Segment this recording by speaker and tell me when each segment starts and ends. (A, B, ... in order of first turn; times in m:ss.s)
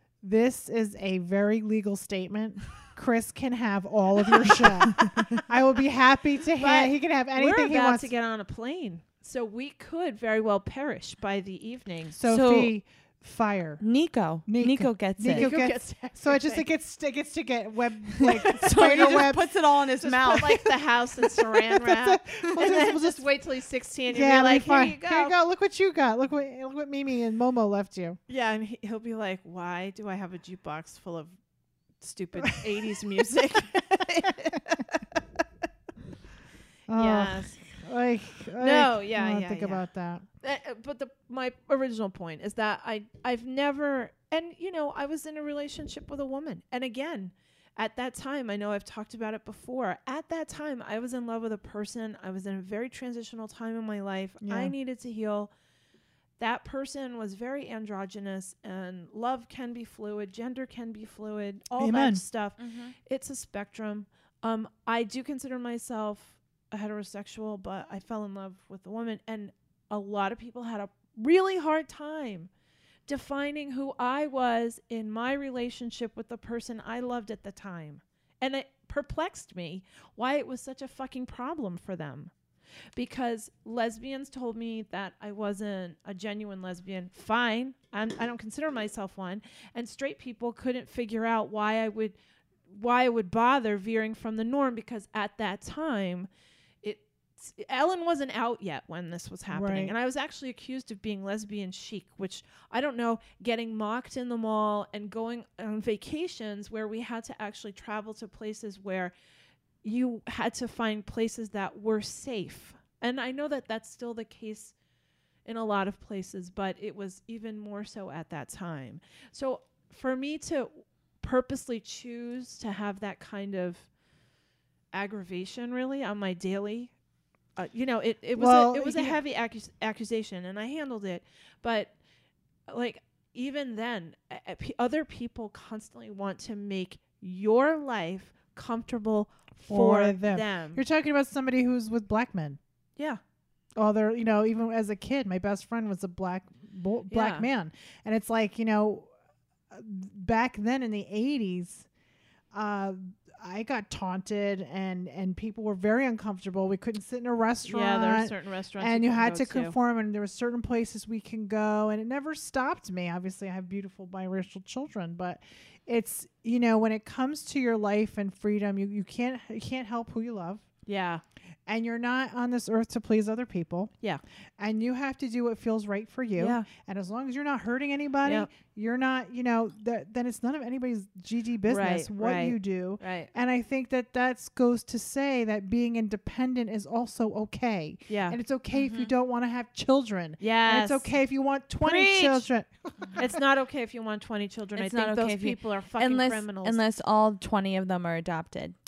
0:00.2-0:08.1 A
0:06.6-0:12.2 B
0:12.2-0:13.8 A
0:12.3-0:12.7 C
0:13.8-0:15.5 C
0:14.5-0:19.5 A
0:15.3-0:16.6 B
0:18.1-0:20.8 C
0:20.0-0:25.3 B
0:21.2-0:23.3 A
0:24.1-0:28.2 A
0:28.3-0:31.4 B
0:32.0-0:35.2 B
0:36.9-0:40.2 A
0:36.9-0:37.6 B
0:38.6-0:39.8 B
0:40.4-0:55.5 B
0:54.4-0:54.7 A
0:56.4-1:12.5 B
1:01.8-1:02.2 A
1:02.6-1:02.9 C
1:13.1-1:22.3 B
1:22.9-1:32.2 B
1:32.7-1:36.3 B
1:36.8-1:49.1 B
1:39.5-1:39.9 A
1:49.8-1:54.7 B
1:55.4-2:03.9 B
2:04.9-2:06.9 B
2:07.6-2:11.9 B
2:08.3-2:09.2 A
2:12.7-2:20.8 B
2:19.6-2:22.6 A
2:23.8-2:29.1 A
2:27.1-2:27.4 B
2:29.7-2:31.9 A
2:32.5-2:50.6 A
2:37.6-2:39.8 B
2:50.8-2:51.2 B
2:51.7-2:53.9 A
2:54.6-3:13.4 A
2:56.4-2:56.7 B
2:58.2-2:58.5 B
3:01.7-3:03.3 B
3:08.1-3:08.4 B
3:08.7-3:09.1 C
3:10.4-3:11.1 B
3:11.8-3:12.5 B
3:13.2-3:16.8 B
3:14.8-3:18.7 C